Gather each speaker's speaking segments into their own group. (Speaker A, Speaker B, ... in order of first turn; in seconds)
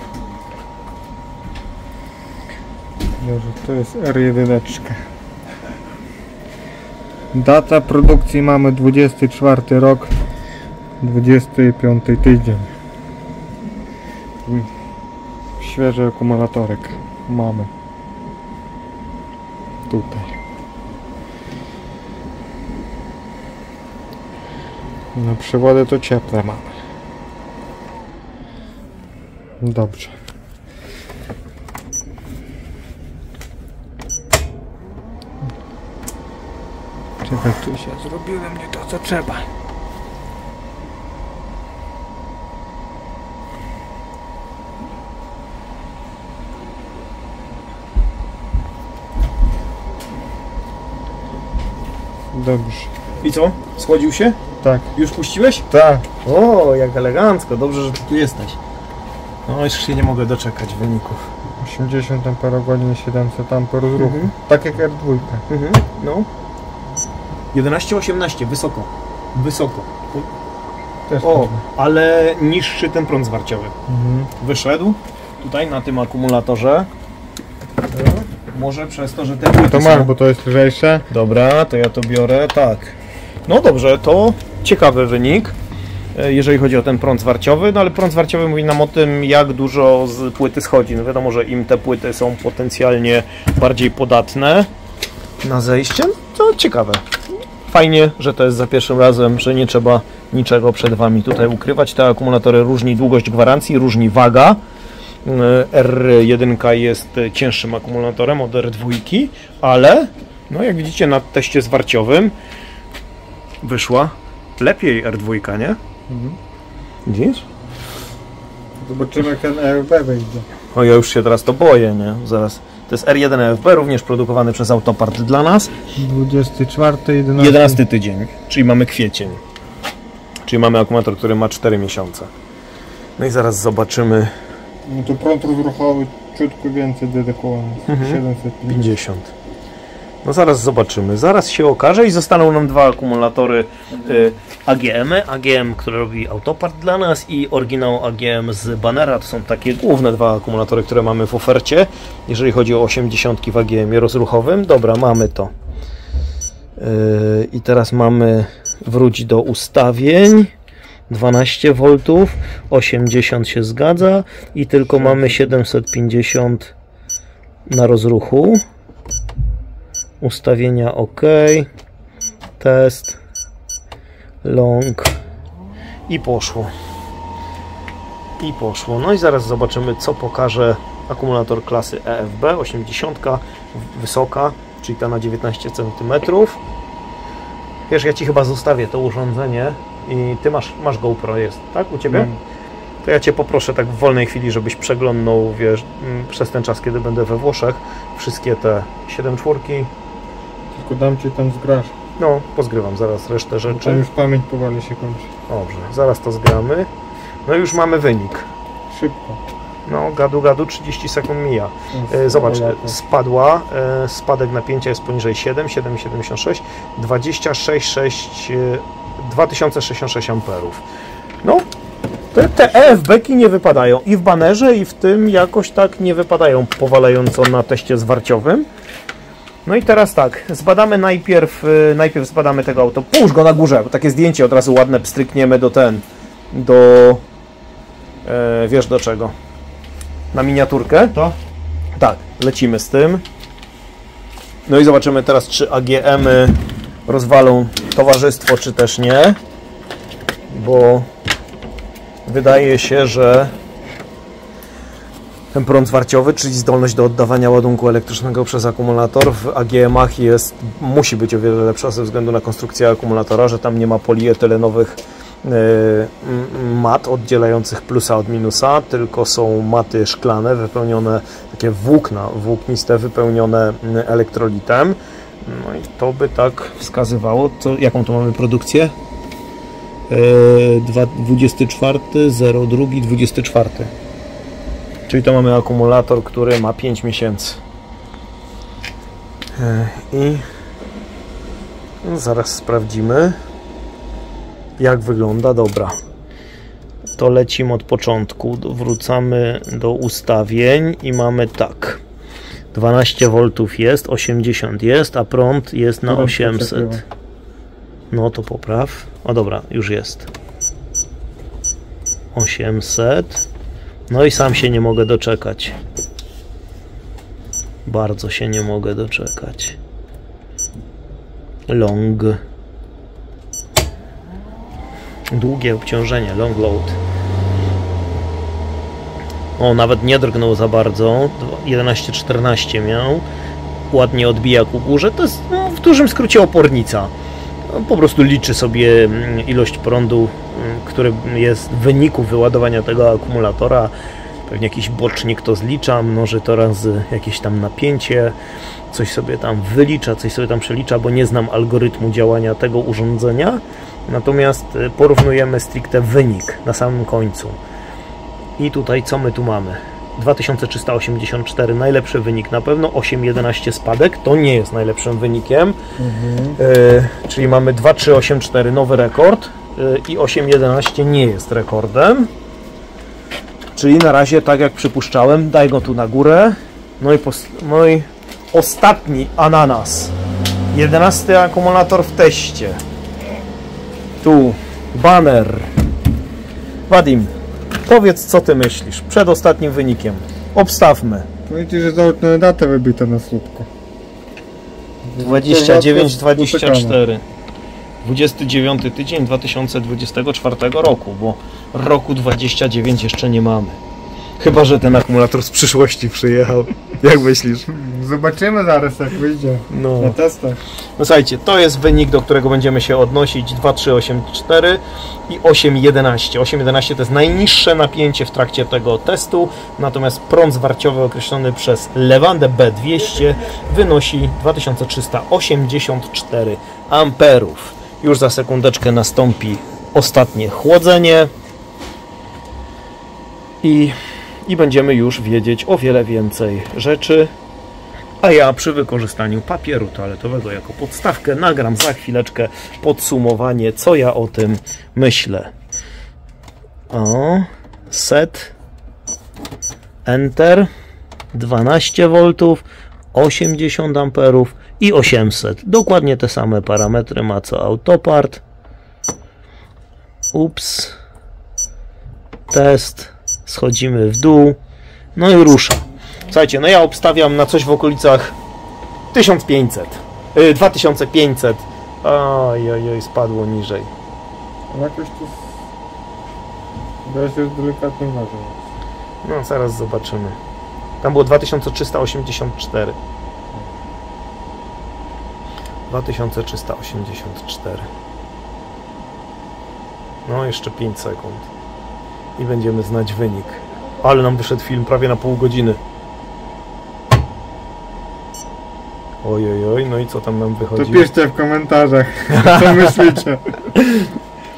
Speaker A: 3.2-5.0, 7.3-10.1, 11.0-12.7, 14.4-14.7, 15.6-17.7, 19.9-20.4, 25.1-26.7, 29.6-30.1, 37.2-39.5, 52.3-52.9, 54.6-54.9, 55.7-56.0, 61.6-65.4, 71.1-71.6, 73.9-74.3, 79.6-81.1, 116.1-116.4, 118.8-120.5, 126.0-127.8, 134.8-139.0, 165.0-165.3, 192.1-192.4, 200.7-201.9, 203.7-205.3, 208.9-209.4, 211.9-212.9, 306.1-307.0, 366.0-366.6, 391.5-393.7, 395.0-397.0, 407.7-410.6, 474.7-475.6, 477.0-478.6, 500.7-503.5
Speaker B: 53.2-54.4, 54.9-55.7, 56.2-58.6, 59.5-61.3, 64.0-64.3, 65.5-66.3, 67.5-70.3, 71.2-73.7, 74.4-76.9, 78.3-80.1, 81.1-82.9, 83.5-85.5, 86.1-94.7, 95.4-97.0, 97.7-104.6, 105.2-112.3, 113.6-115.8, 117.0-117.4, 120.7-125.7, 127.4-129.4, 130.5-132.3, 133.2-134.3, 137.9-139.3, 140.2-155.5, 156.8-160.5, 161.1-166.7, 167.7-168.6, 170.2-171.7, 172.6-173.2, 174.4-175.2, 176.1-176.7, 178.4-186.6, 187.9-192.3, 193.0-199.9, 202.2-204.0, 205.5-206.9, 207.4-208.5, 209.8-220.8, 222.3-228.7, 229.6-237.2, 238.2-239.3, 240.3-241.2, 242.0-243.2, 244.7-249.4, 250.5-251.1, 252.2-253.5, 255.5-278.9, 280.1-283.9, 285.1-287.6, 289.6-290.4, 292.0-293.4, 294.8-295.9, 297.2-302.0, 302.7-307.0, 308.1-310.3, 312.3-313.4, 314.1-315.8, 317.8-319.8, 321.7-322.4, 325.3-327.0, 329.6-333.2, 333.9-337.1, 337.7-343.9, 344.5-348.3, 348.9-357.6, 358.6-365.8, 366.6-372.3, 373.8-380.1, 380.7-382.8, 384.2-385.7, 386.9-387.3, 387.8-391.3, 395.2-397.2, 398.0-403.8, 404.4-407.7, 409.7-410.1, 411.0-431.3, 433.6-437.3, 438.2-445.5, 446.9-448.5, 450.0-450.7, 451.3-458.4, 460.3-460.9, 462.5-464.6, 465.1-468.4, 469.1-473.9, 479.2-480.4, 481.0-483.0, 485.9-487.9, 490.2-491.5, 492.4-495.8, 499.2-501.1, 502.3-503.1, 503.7-504.1